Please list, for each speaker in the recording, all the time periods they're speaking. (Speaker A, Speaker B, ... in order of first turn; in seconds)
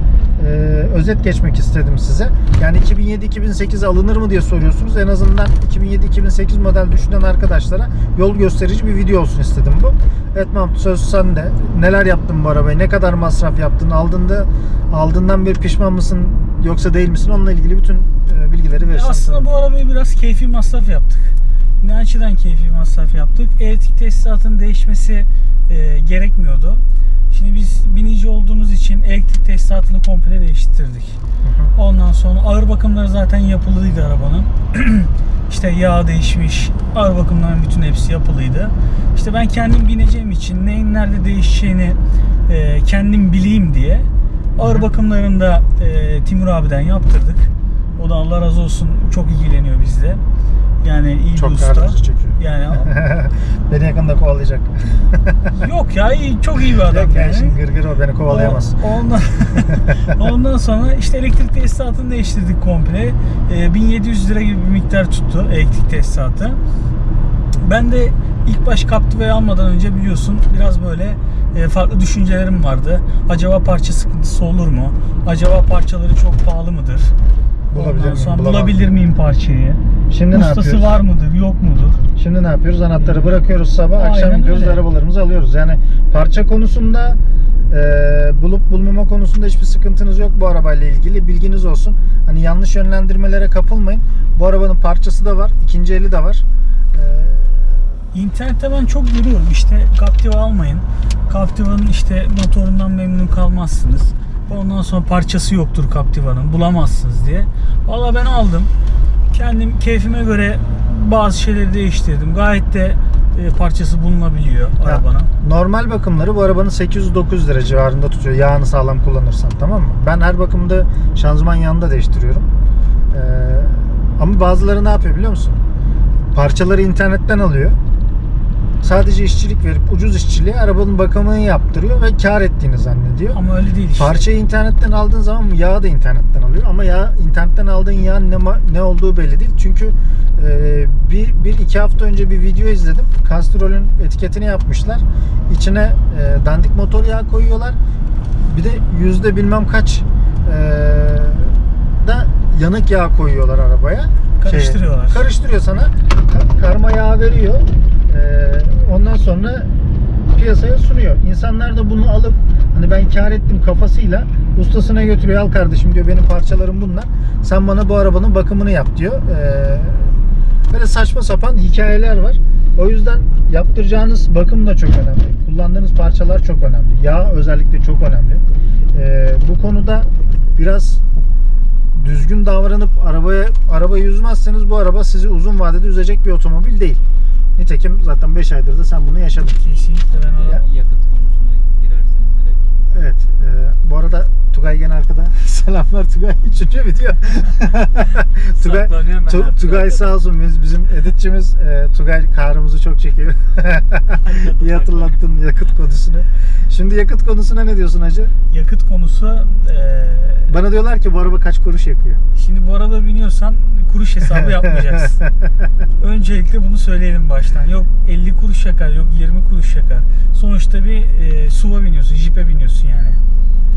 Speaker A: 0.4-19.5, 31.4-31.7, 44.6-44.9, 51.3-55.5, 56.8-58.8, 59.6-60.1, 77.7-78.8, 80.1-81.0, 82.2-87.2, 87.7-97.9, 114.8-122.5, 123.1-125.6, 126.3-127.8, 128.8-133.4, 133.9-147.8, 148.4-159.7, 160.3-170.2, 170.7-181.0, 181.9-187.0, 187.6-189.6, 192.9-208.3, 210.5-212.2, 214.3-215.3
Speaker B: 18.8-31.2, 31.8-50.2, 50.8-52.9, 55.5-57.6, 58.3-66.6, 67.6-77.2, 77.7-82.0, 83.0-83.3, 84.0-84.8, 98.1-108.7, 109.3-115.3, 133.3-134.3, 154.4-155.3, 189.6-190.7, 198.6-199.7, 208.5-210.6, 212.3-215.2, 216.0-223.2
Speaker C: 190.1-192.6, 199.6-200.1, 204.2-205.2